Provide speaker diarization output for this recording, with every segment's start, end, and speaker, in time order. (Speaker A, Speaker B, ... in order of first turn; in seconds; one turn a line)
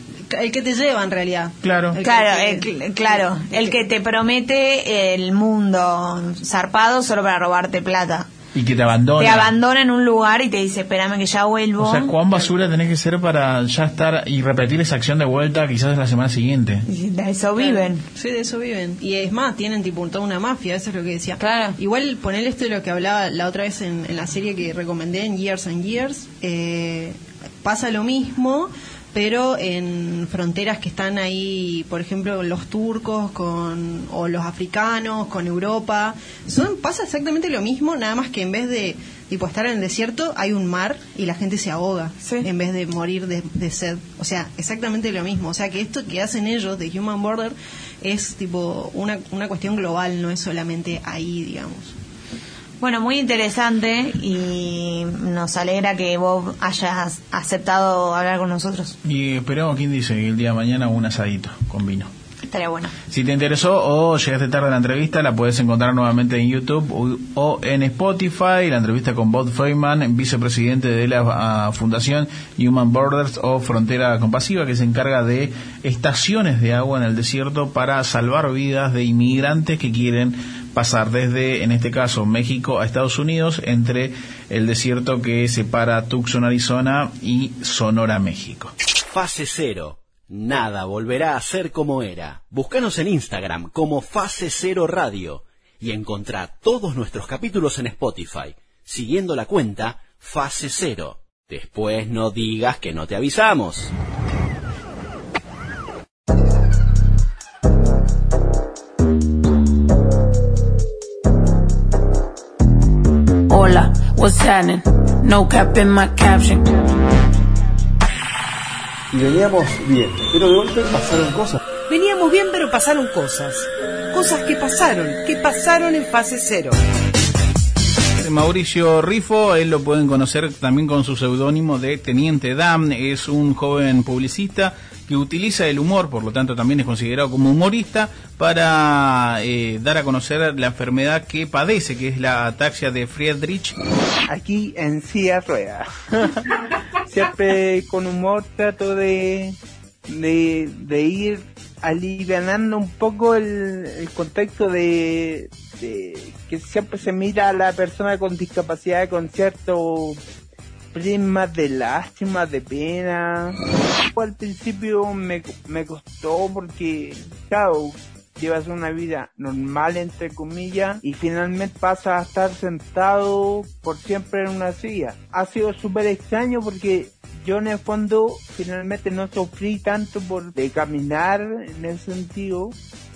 Speaker A: 0.3-3.8
Speaker B: 1.6-2.0
Speaker C: 2.0-8.3
Speaker B: 8.5-9.5
Speaker C: 9.2-12.2
Speaker B: 11.8-16.9
Speaker C: 16.9-18.0
Speaker A: 17.6-52.0
Speaker C: 21.4-21.8
Speaker C: 42.2-42.5
Speaker C: 52.8-59.0
Speaker B: 59.0-62.1
Speaker C: 62.5-62.9
Speaker B: 63.1-88.7
Speaker D: 89.1-103.9
Speaker E: 113.5-116.9
Speaker F: 119.1-121.6
Speaker G: 121.9-126.8
Speaker B: 128.2-143.8
Speaker H: 144.3-146.3
Speaker H: 147.1-149.6
Speaker H: 150.1-160.2
Speaker H: 160.9-163.6
Speaker H: 164.1-182.8